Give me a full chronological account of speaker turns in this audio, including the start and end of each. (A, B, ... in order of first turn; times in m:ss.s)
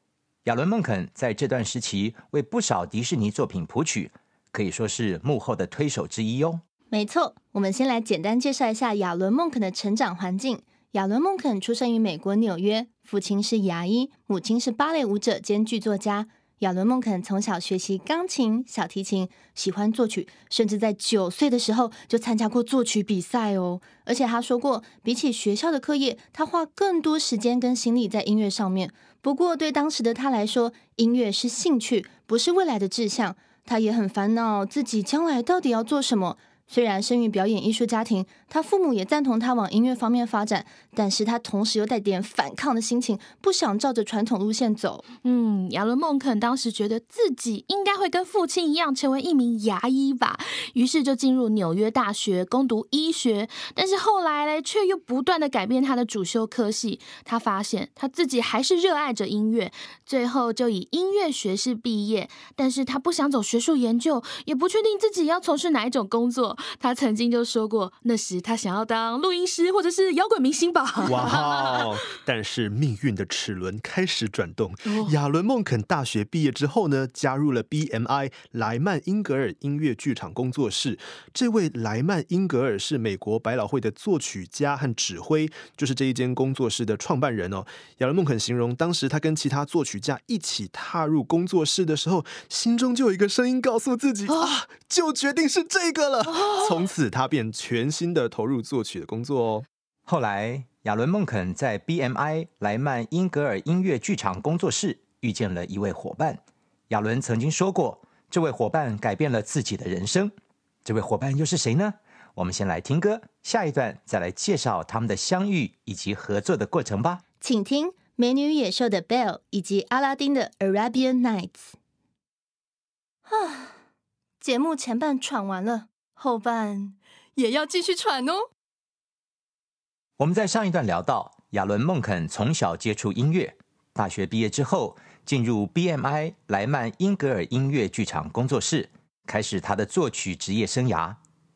0:00.4-0:06.6 A
0:06.9-0:45.0 B
0:45.2-1:11.9 C
1:11.0-1:39.7 D
1:36.3-1:36.7 C
1:40.1-1:50.3 A
1:50.8-1:57.2 A
1:57.4-2:01.8 B
2:03.3-2:03.8 B
2:04.4-2:08.4 B
2:10.2-2:21.2 A